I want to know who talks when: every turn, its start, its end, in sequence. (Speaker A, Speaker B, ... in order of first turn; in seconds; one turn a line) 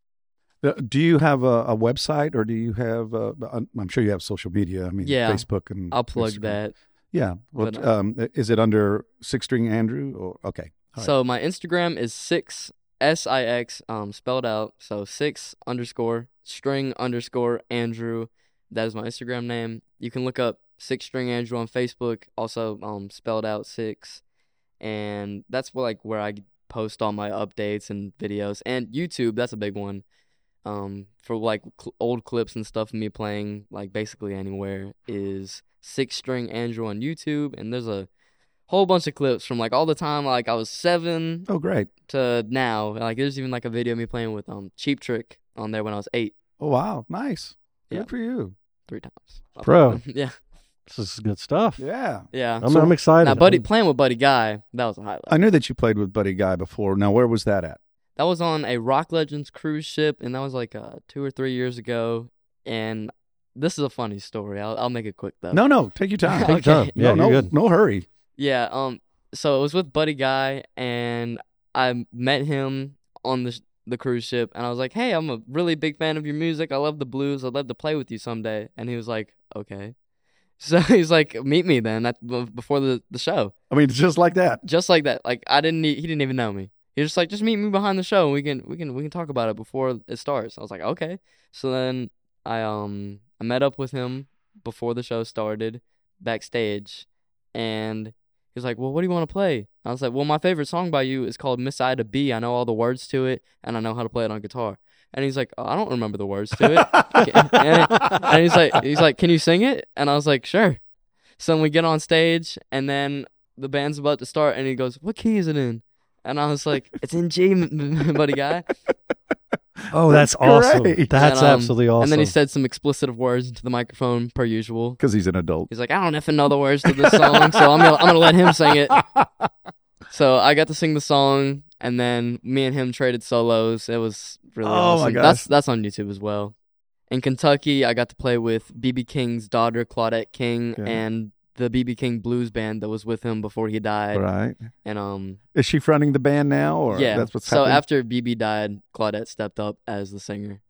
Speaker A: 0.6-6.6
Speaker B: 5.0-6.7
Speaker A: 7.1-11.1
Speaker B: 7.6-7.9
Speaker B: 11.0-24.2
Speaker B: 24.8-30.0
Speaker B: 30.6-38.1
Speaker B: 38.7-41.5
Speaker A: 41.5-41.9
Speaker B: 42.1-46.3
Speaker A: 46.6-48.5
Speaker B: 48.9-50.4
Speaker C: 49.6-50.0
Speaker C: 50.9-51.8
Speaker A: 51.8-52.9
Speaker B: 52.3-52.7
Speaker C: 52.6-53.6
Speaker B: 53.2-55.4
Speaker A: 55.3-57.8
Speaker B: 58.2-65.6
Speaker A: 65.5-68.0
Speaker B: 66.3-66.9
Speaker C: 66.4-67.5
Speaker B: 68.4-79.9
Speaker B: 80.6-83.5
Speaker A: 83.7-84.6
Speaker B: 84.6-110.8
Speaker A: 106.8-107.2
Speaker B: 111.4-118.7
Speaker C: 119.9-122.3
Speaker A: 120.0-121.2
Speaker B: 121.2-125.0
Speaker A: 125.0-125.7
Speaker B: 125.7-129.0
Speaker A: 126.8-129.5
Speaker B: 130.1-136.5
Speaker A: 134.6-135.5
Speaker B: 137.1-144.2
Speaker A: 140.8-141.0
Speaker A: 144.1-144.6
Speaker B: 144.8-145.4
Speaker A: 145.5-147.8
Speaker B: 146.9-150.6